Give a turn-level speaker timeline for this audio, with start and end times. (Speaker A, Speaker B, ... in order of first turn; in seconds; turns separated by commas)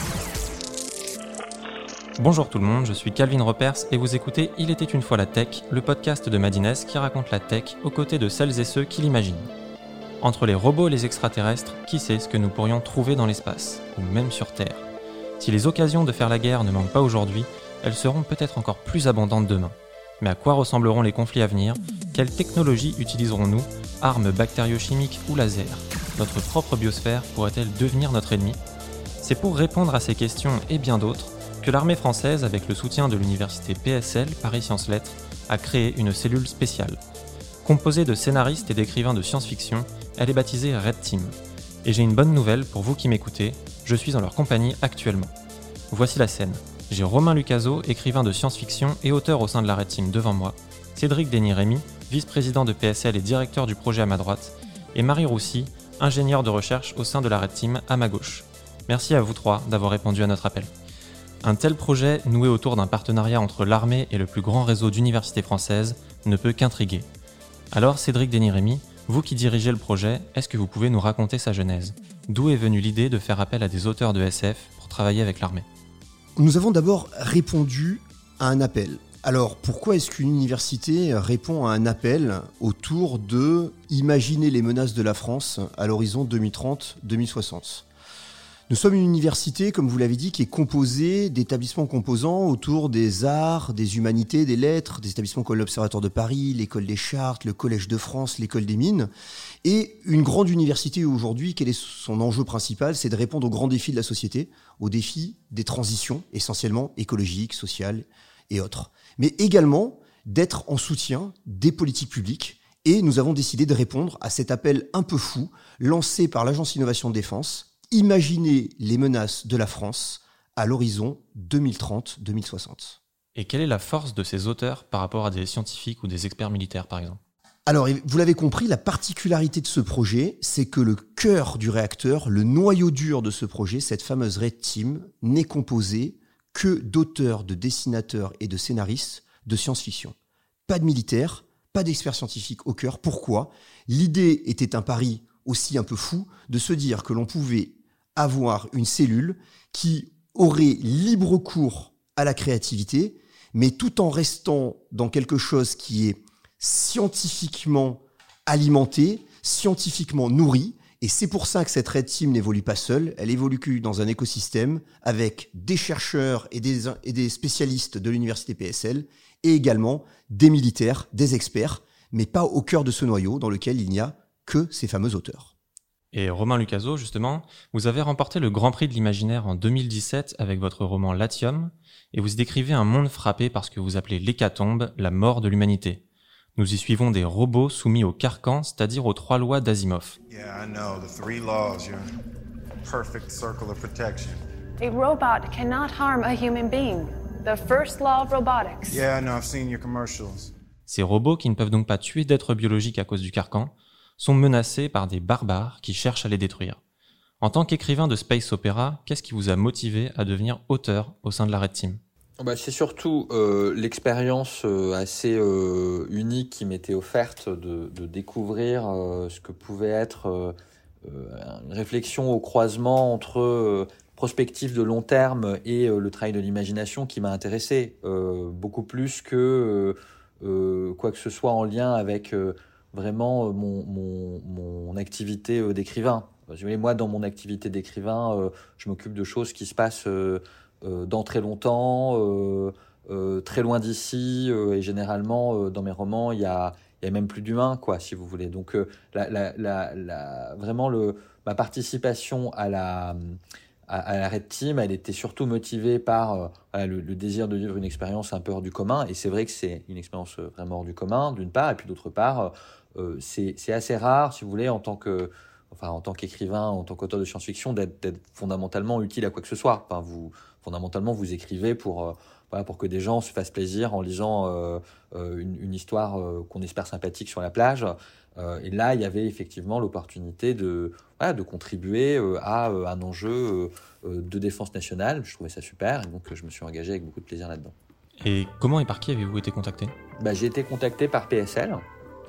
Speaker A: 2.2-9.5, Speaker A: 10.2-14.8, Speaker A: 15.4-28.6, Speaker A: 29.2-37.0, Speaker A: 37.6-45.3, Speaker A: 45.9-60.7, Speaker A: 61.4-67.1, Speaker A: 67.7-75.7, Speaker B: 76.4-87.8, Speaker B: 88.7-99.1, Speaker B: 99.6-123.0, Speaker A: 123.3-127.2, Speaker B: 127.7-140.2, Speaker B: 140.7-175.5, Speaker A: 176.1-186.0, Speaker A: 186.6-190.2, Speaker C: 190.3-192.0, Speaker C: 192.8-194.4, Speaker D: 194.8-199.0, Speaker C: 198.9-200.5, Speaker A: 200.9-206.8, Speaker A: 207.4-212.0, Speaker E: 212.4-287.7, Speaker A: 288.2-289.9, Speaker E: 290.2-291.8